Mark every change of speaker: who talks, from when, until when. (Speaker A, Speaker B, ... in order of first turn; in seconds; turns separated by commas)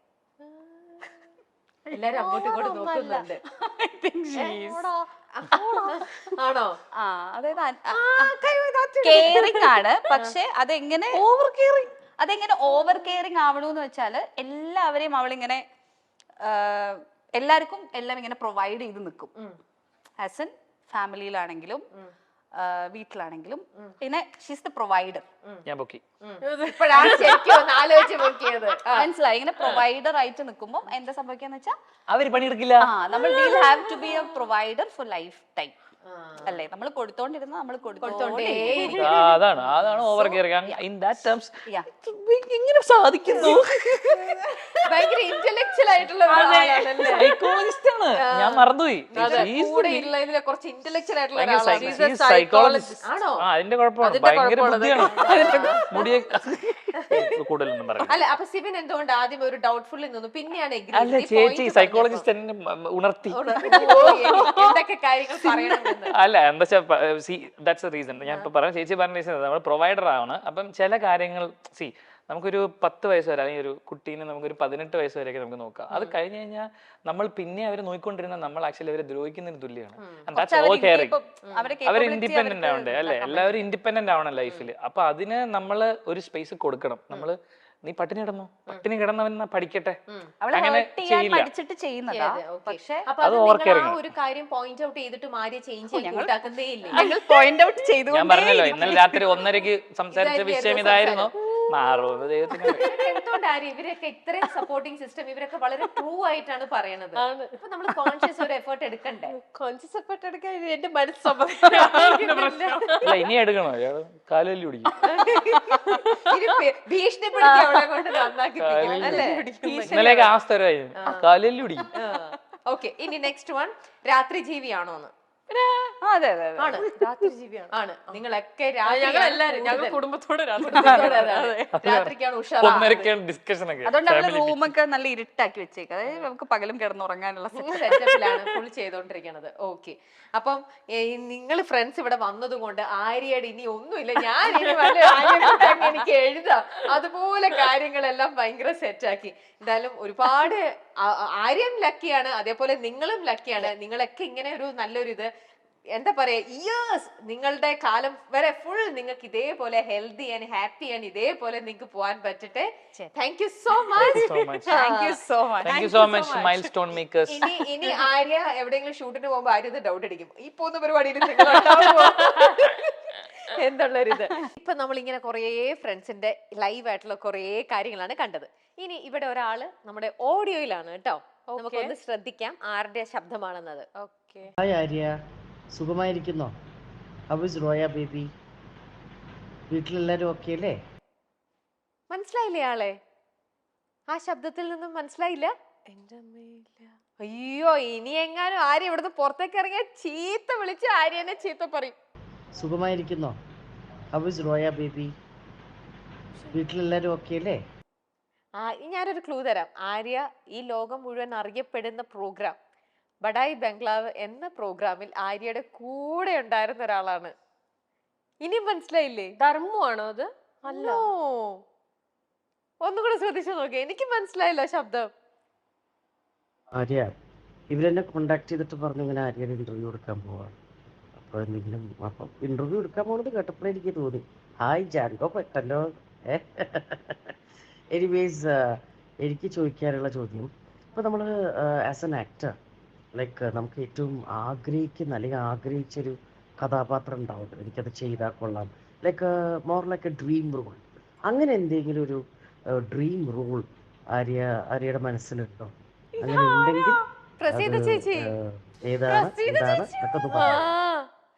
Speaker A: 0.4-1.1, Speaker B: 1.9-4.8, Speaker C: 1.9-3.4, Speaker A: 4.3-6.0, Speaker C: 5.3-6.8, Speaker B: 7.0-8.3, Speaker C: 7.9-9.6, Speaker B: 9.0-15.6, Speaker A: 9.2-9.5, Speaker B: 16.4-19.3, Speaker B: 20.2-21.9, Speaker B: 22.5-25.2, Speaker D: 25.7-26.0, Speaker C: 26.2-29.1, Speaker A: 26.4-28.3, Speaker B: 28.9-31.7, Speaker D: 32.1-32.9, Speaker B: 32.8-35.7, Speaker A: 33.1-34.0, Speaker C: 36.0-36.6, Speaker B: 36.4-39.2, Speaker C: 38.0-39.3, Speaker D: 38.8-44.2, Speaker B: 40.1-40.8, Speaker B: 43.3-44.3, Speaker C: 44.8-47.3, Speaker B: 46.3-47.4, Speaker D: 47.0-50.1, Speaker C: 48.1-52.0, Speaker A: 49.1-49.5, Speaker D: 51.4-58.2, Speaker A: 51.6-53.2, Speaker C: 53.1-53.5, Speaker A: 54.0-56.1, Speaker C: 55.0-56.0, Speaker C: 57.0-57.3, Speaker C: 58.0-62.2, Speaker D: 60.9-64.6, Speaker C: 63.3-66.1, Speaker A: 63.7-64.2, Speaker B: 63.7-64.5, Speaker D: 66.1-81.2, Speaker C: 80.0-80.3, Speaker B: 80.3-83.7, Speaker C: 81.4-81.7, Speaker D: 81.8-90.0, Speaker C: 90.1-90.3, Speaker B: 90.4-93.1, Speaker D: 90.5-91.5, Speaker C: 92.1-97.0, Speaker D: 93.2-94.0, Speaker B: 95.9-96.3, Speaker B: 96.9-99.4, Speaker D: 98.1-102.9, Speaker C: 100.1-101.3, Speaker C: 102.7-109.3, Speaker A: 102.8-103.1, Speaker A: 107.2-108.3, Speaker A: 109.3-113.2, Speaker C: 111.0-113.1, Speaker D: 113.0-114.9, Speaker C: 115.0-120.3, Speaker B: 117.4-118.1, Speaker D: 118.6-119.2, Speaker B: 118.8-120.0, Speaker A: 119.1-120.3, Speaker D: 119.8-121.9, Speaker C: 121.0-121.3, Speaker C: 121.9-125.1, Speaker B: 126.0-126.9, Speaker C: 126.6-126.8, Speaker A: 126.8-128.2, Speaker C: 127.7-130.0, Speaker A: 128.8-131.7, Speaker C: 130.6-133.1, Speaker D: 131.8-134.7, Speaker B: 133.8-138.1, Speaker C: 137.5-155.3, Speaker C: 155.9-166.7, Speaker D: 163.9-164.7, Speaker B: 164.7-165.9, Speaker D: 165.6-167.4, Speaker C: 167.3-183.9, Speaker A: 171.5-172.3, Speaker A: 181.5-181.9, Speaker A: 184.0-184.5, Speaker E: 184.6-185.1, Speaker E: 185.7-186.5, Speaker E: 187.3-188.3, Speaker E: 189.7-190.8, Speaker C: 192.1-193.0, Speaker C: 194.1-195.5, Speaker A: 195.9-196.9, Speaker C: 197.2-201.9, Speaker E: 202.6-203.4, Speaker E: 204.1-205.1, Speaker E: 206.5-207.6, Speaker C: 208.6-212.6, Speaker C: 213.2-217.3, Speaker C: 218.4-219.3, Speaker A: 219.4-221.1, Speaker C: 220.7-221.6, Speaker C: 222.8-225.1, Speaker E: 226.7-227.1, Speaker E: 227.7-230.5, Speaker E: 231.2-237.3, Speaker E: 237.9-242.5, Speaker E: 243.1-252.2, Speaker E: 252.7-260.7, Speaker A: 256.2-256.9, Speaker C: 257.4-258.3, Speaker A: 259.0-260.6, Speaker C: 260.3-261.0